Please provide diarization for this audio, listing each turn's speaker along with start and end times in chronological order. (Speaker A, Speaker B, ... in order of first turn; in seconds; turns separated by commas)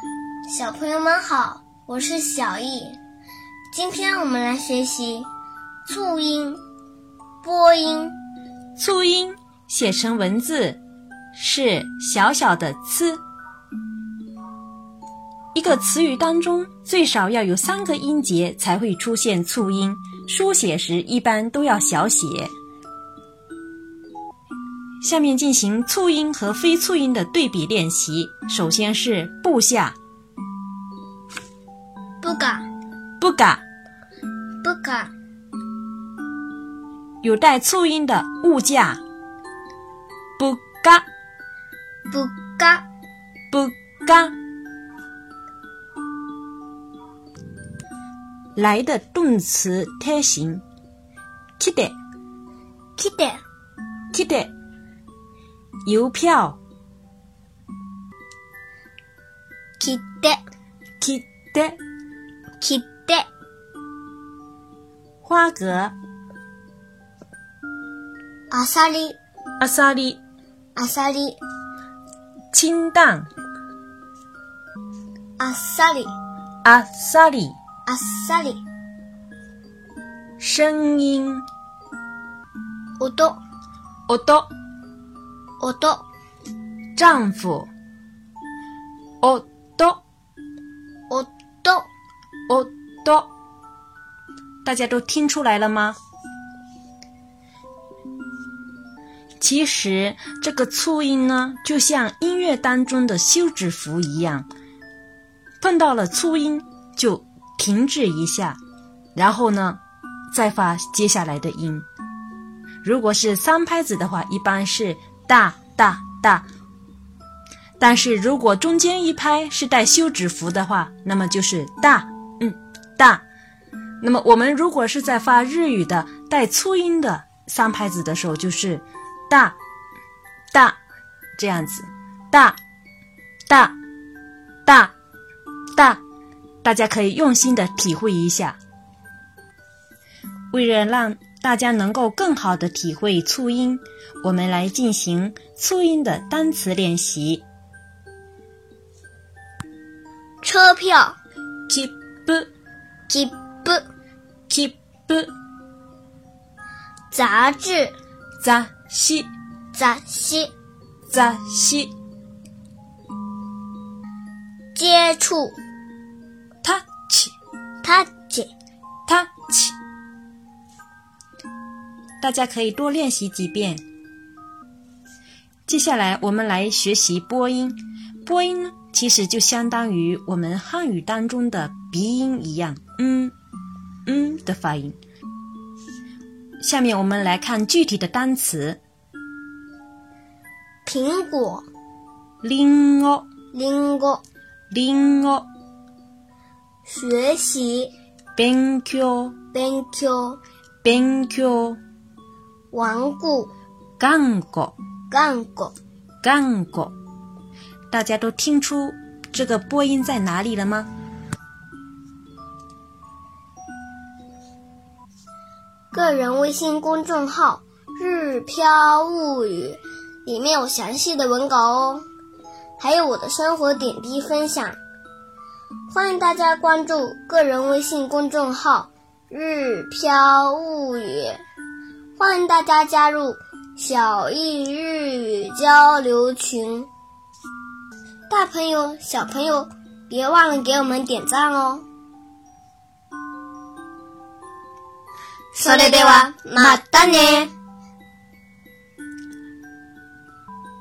Speaker A: 0.5-3.0, Speaker A: 3.7-5.3, Speaker A: 5.9-6.6, Speaker A: 7.4-8.2, Speaker B: 8.8-10.8, Speaker B: 11.3-13.2, Speaker B: 15.5-22.5, Speaker B: 25.0-29.9, Speaker A: 32.2-32.7, Speaker B: 33.2-33.6, Speaker A: 34.6-35.1, Speaker B: 37.2-39.0, Speaker B: 40.4-41.0, Speaker A: 42.1-42.8, Speaker B: 43.5-44.3, Speaker B: 48.5-50.6, Speaker B: 51.6-52.0, Speaker A: 53.0-53.4, Speaker B: 54.1-54.5, Speaker B: 55.9-56.6, Speaker A: 59.8-60.4, Speaker B: 61.0-61.8, Speaker A: 62.6-63.3, Speaker B: 65.2-65.9, Speaker A: 68.5-69.2, Speaker B: 69.6-70.2, Speaker A: 70.8-71.4, Speaker B: 72.5-73.3, Speaker A: 75.4-76.1, Speaker B: 76.6-77.6, Speaker A: 77.9-78.6, Speaker B: 80.4-81.5, Speaker A: 83.0-83.4, Speaker B: 84.1-84.5, Speaker A: 85.6-86.0, Speaker B: 87.0-87.7, Speaker B: 89.2-90.0, Speaker A: 91.1-91.9, Speaker B: 92.5-93.3, Speaker B: 94.7-96.0, Speaker B: 99.4-104.5, Speaker B: 105.6-108.6, Speaker B: 109.2-109.8, Speaker B: 110.3-111.9, Speaker B: 112.8-116.5, Speaker B: 117.8-123.2, Speaker B: 124.0-129.6, Speaker B: 130.5-130.8, Speaker B: 131.4-132.6, Speaker B: 133.5-133.8, Speaker B: 134.7-134.9, Speaker B: 135.8-136.0, Speaker B: 136.6-138.6, Speaker B: 140.5-147.4, Speaker A: 150.4-151.2, Speaker B: 151.7-152.5, Speaker A: 153.1-153.8, Speaker B: 154.5-155.3, Speaker A: 157.1-157.9, Speaker B: 158.4-159.3, Speaker A: 159.7-160.5, Speaker B: 161.1-161.9, Speaker A: 164.8-165.6, Speaker B: 166.6-167.3, Speaker A: 167.8-168.5, Speaker B: 169.1-169.8, Speaker B: 172.2-173.8, Speaker B: 175.7-183.3, Speaker B: 184.1-185.0, Speaker B: 186.6-188.8, Speaker A: 190.9-191.7, Speaker B: 192.4-193.2, Speaker A: 193.5-194.2, Speaker B: 194.7-195.5, Speaker A: 196.9-197.9, Speaker B: 198.4-199.3, Speaker A: 199.5-200.4, Speaker B: 200.8-201.8, Speaker A: 202.7-203.5, Speaker B: 204.0-204.8, Speaker A: 205.1-205.8, Speaker B: 206.2-206.9, Speaker B: 207.9-210.9, Speaker A: 215.9-222.1, Speaker A: 222.8-224.8, Speaker A: 225.9-231.4, Speaker A: 232.2-236.9, Speaker A: 238.3-241.8, Speaker A: 245.5-247.5, Speaker B: 245.7-246.3